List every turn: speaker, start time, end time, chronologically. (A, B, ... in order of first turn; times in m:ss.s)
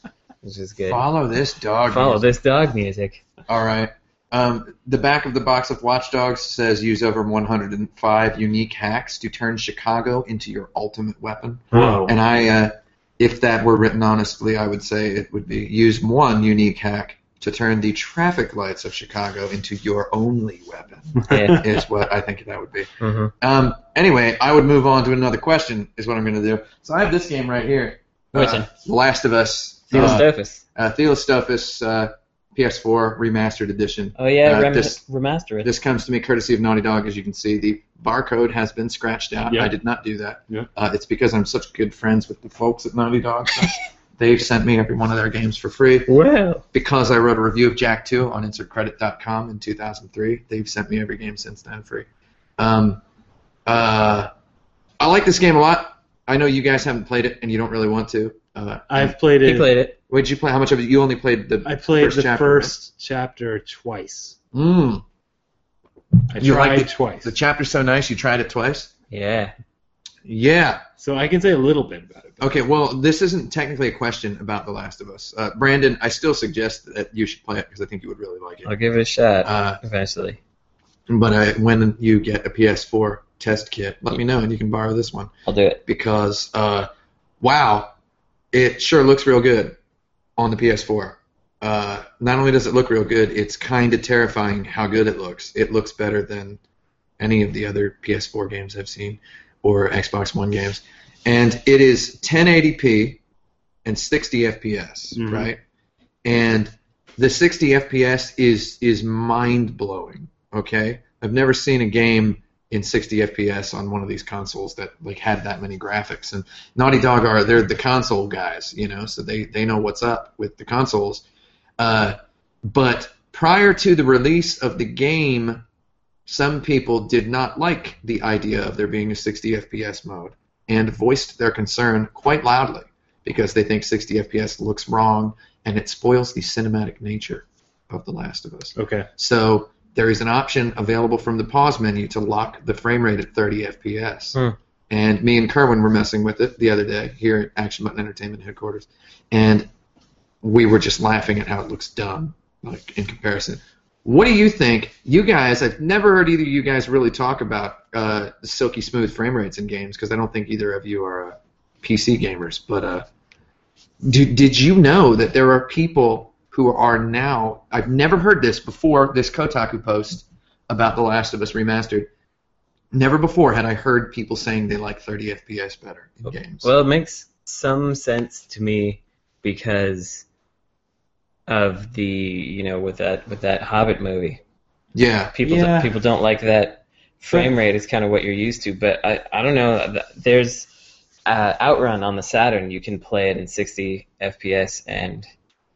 0:00.4-0:01.0 A
0:00.9-0:02.2 B
0:01.9-0:03.2 A
0:03.5-0:22.9 B
0:11.7-0:12.1 C
0:21.2-0:21.7 C
0:21.3-0:21.7 A
0:23.0-0:23.3 A
0:23.4-0:35.0 B
0:28.3-0:28.7 A
0:29.9-0:30.6 A
0:29.9-0:30.2 C
0:34.2-0:35.7 A
0:35.6-0:46.1 B
0:39.5-0:39.7 C
0:46.1-0:46.6 A
0:46.7-0:52.1 B
0:52.6-0:53.0 B
0:53.7-0:54.3 B
0:55.0-0:59.2 B
0:58.9-0:59.7 C
0:59.4-1:00.0 A
1:00.1-1:02.7 B
1:01.6-1:04.4 C
1:04.5-1:05.0 B
1:06.3-1:07.3 C
1:06.4-1:08.9 B
1:09.1-1:09.5 A
1:10.2-1:10.8 B
1:11.0-1:12.6 C
1:12.4-1:18.7 B
1:18.6-1:20.4 A
1:19.4-1:19.8 B
1:21.1-1:25.3 B
1:25.5-1:25.8 A
1:25.9-1:26.9 B
1:27.4-1:27.9 B
1:28.5-1:29.8 B
1:30.4-1:36.6 B
1:37.2-1:43.2 B
1:43.8-1:45.6 B
1:45.2-1:45.5 C
1:46.2-2:01.2 B
2:01.8-2:05.6 B
2:06.3-2:24.4 B
2:18.8-2:19.1 C
2:24.9-2:29.7 B
2:30.4-2:43.1 B
2:44.0-2:52.1 B
2:52.9-2:56.7 B
2:56.2-3:00.2 A
3:01.5-3:04.4 A
3:04.9-3:05.3 B
3:05.3-3:10.7 A
3:05.4-3:05.9 C
3:07.3-3:07.6 C
3:11.3-3:15.3 A